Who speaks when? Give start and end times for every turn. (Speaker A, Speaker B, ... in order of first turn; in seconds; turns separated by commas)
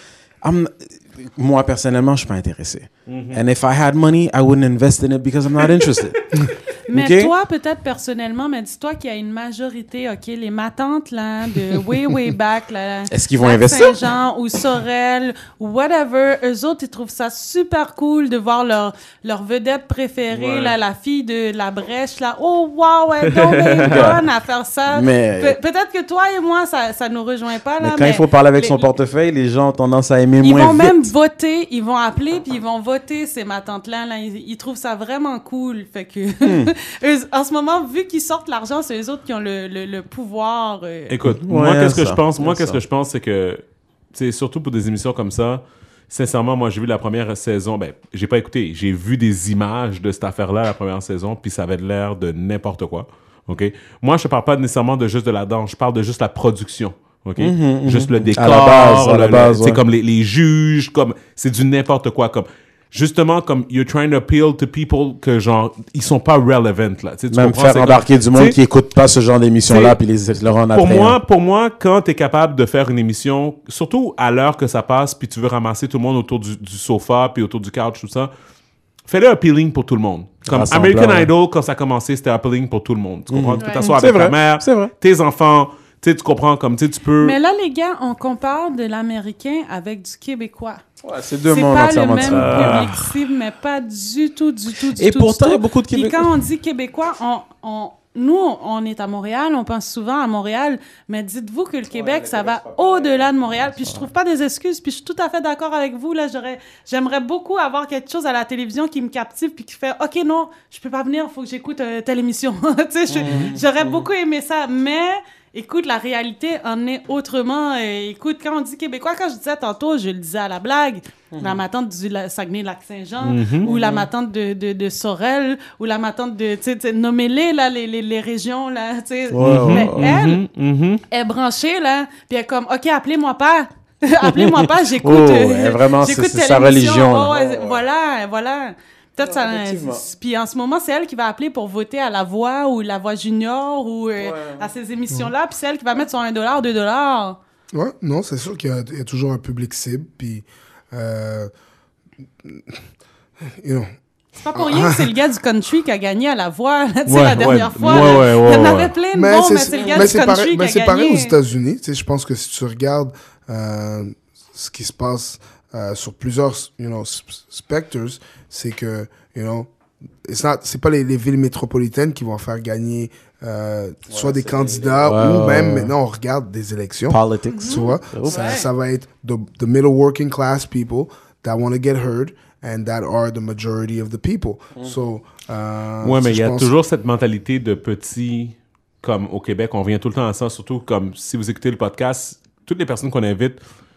Speaker A: 0.4-7.3, Speaker B: 3.1-3.4, Speaker C: 6.9-28.9, Speaker A: 13.1-14.0, Speaker B: 20.3-20.8, Speaker B: 23.2-24.2, Speaker A: 23.8-24.2, Speaker A: 24.9-25.6, Speaker A: 27.8-31.1, Speaker C: 30.4-41.1, Speaker A: 36.4-36.7, Speaker B: 41.1-43.6, Speaker A: 41.2-42.8, Speaker B: 44.1-68.6, Speaker A: 57.4-59.8, Speaker A: 67.3-71.2, Speaker B: 69.7-70.0, Speaker B: 70.7-78.3, Speaker B: 79.1-87.3, Speaker A: 80.5-81.3, Speaker A: 83.3-84.9, Speaker C: 83.6-84.0, Speaker C: 87.2-90.8, Speaker A: 91.0-92.9, Speaker C: 91.4-130.4, Speaker B: 92.2-93.1, Speaker A: 95.0-96.3, Speaker A: 101.9-104.1, Speaker A: 113.1-114.0, Speaker A: 121.3-121.6, Speaker B: 123.2-123.7, Speaker A: 123.6-124.1, Speaker A: 129.3-130.1, Speaker B: 129.4-131.0, Speaker C: 131.1-147.4, Speaker A: 134.2-137.8, Speaker A: 139.2-140.0, Speaker A: 144.2-144.7, Speaker D: 147.7-151.5, Speaker D: 152.4-152.8, Speaker D: 153.4-153.9, Speaker C: 154.4-161.3, Speaker D: 154.5-155.1, Speaker B: 157.1-158.9, Speaker A: 157.4-158.3, Speaker D: 159.1-169.7, Speaker A: 159.7-160.1, Speaker D: 170.2-186.7, Speaker A: 174.1-175.9, Speaker A: 177.1-178.6, Speaker C: 177.5-178.7, Speaker B: 186.0-193.6